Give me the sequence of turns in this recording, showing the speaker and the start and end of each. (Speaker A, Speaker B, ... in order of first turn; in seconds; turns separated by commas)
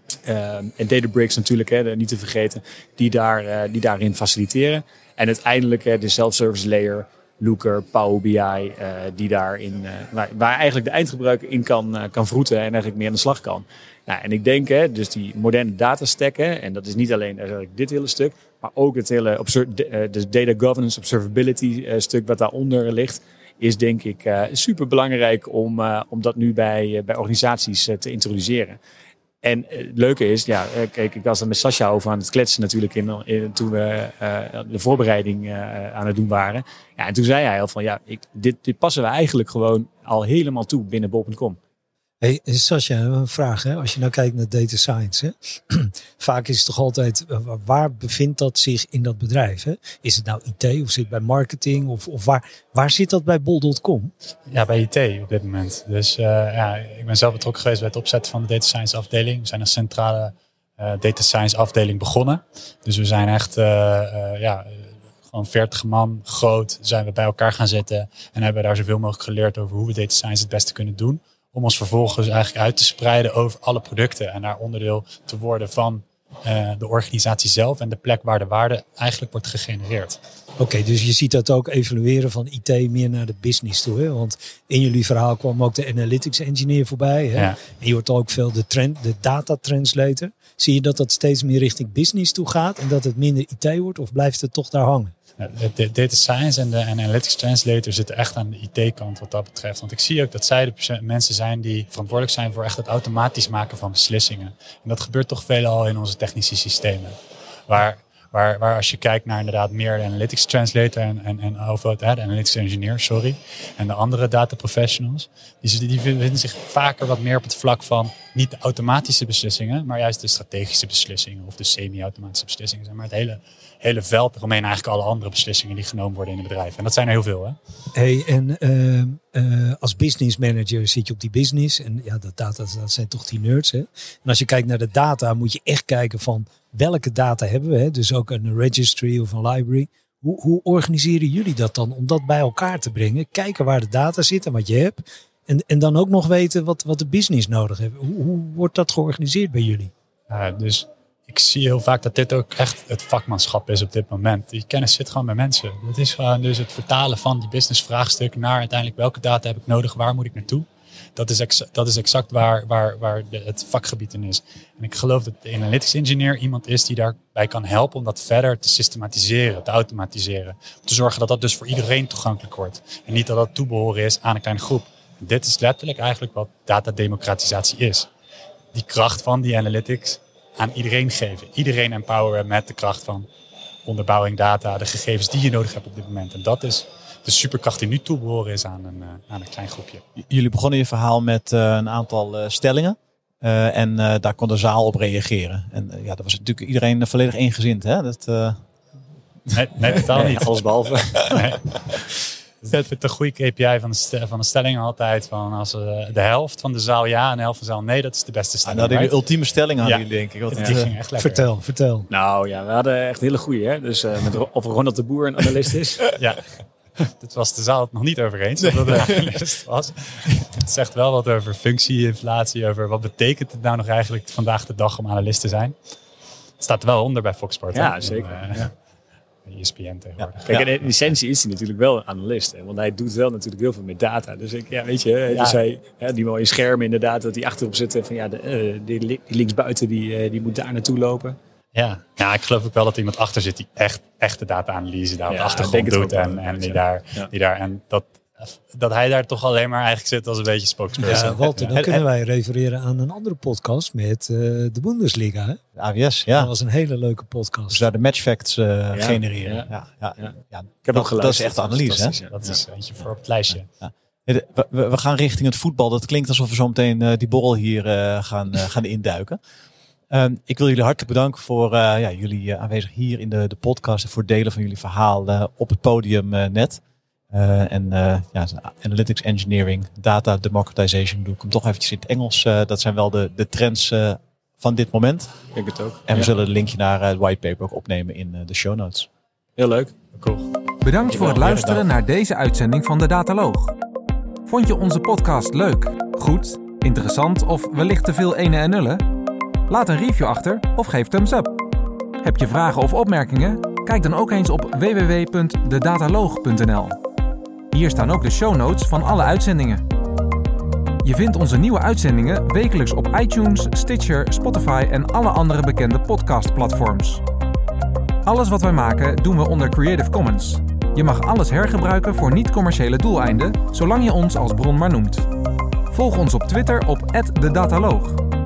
Speaker A: 0.3-28.8, Speaker A: 29.4-41.6, Speaker B: 42.2-54.1, Speaker C: 54.5-80.2, Speaker B: 80.6-95.1, Speaker C: 87.4-87.6, Speaker C: 95.4-107.2, Speaker C: 107.7-127.6, Speaker B: 127.9-149.9, Speaker C: 150.3-178.1, Speaker C: 178.7-183.3, Speaker C: 183.8-190.0, Speaker D: 190.2-198.6, Speaker C: 199.5-200.4, Speaker A: 200.1-202.0, Speaker C: 201.3-201.6, Speaker C: 202.6-209.2, Speaker D: 208.7-210.9, Speaker C: 209.8-211.5, Speaker B: 211.2-212.1, Speaker A: 212.1-216.1, Speaker C: 216.2-225.8, Speaker D: 218.6-219.4, Speaker C: 226.6-228.7, Speaker A: 227.7-228.7, Speaker C: 229.5-230.9, Speaker D: 230.2-230.7, Speaker A: 230.5-241.4, Speaker C: 235.3-235.6, Speaker C: 241.7-251.8, Speaker A: 245.3-247.3, Speaker B: 251.0-255.6, Speaker D: 251.7-252.0, Speaker D: 255.8-256.5, Speaker B: 256.3-257.9, Speaker D: 257.7-262.2, Speaker A: 258.9-262.6, Speaker C: 262.3-263.7, Speaker D: 263.6-269.4, Speaker D: 270.1-285.3, Speaker A: 285.5-286.3, Speaker D: 286.1-289.1, Speaker A: 289.6-289.9, Speaker C: 290.1-290.5, Speaker E: 290.8-293.8, Speaker D: 291.0-291.9, Speaker E: 294.5-299.0, Speaker E: 299.7-301.5, Speaker E: 302.2-307.0, Speaker E: 307.7-309.8, Speaker E: 311.0-317.2, Speaker E: 318.2-325.3, Speaker E: 325.9-328.2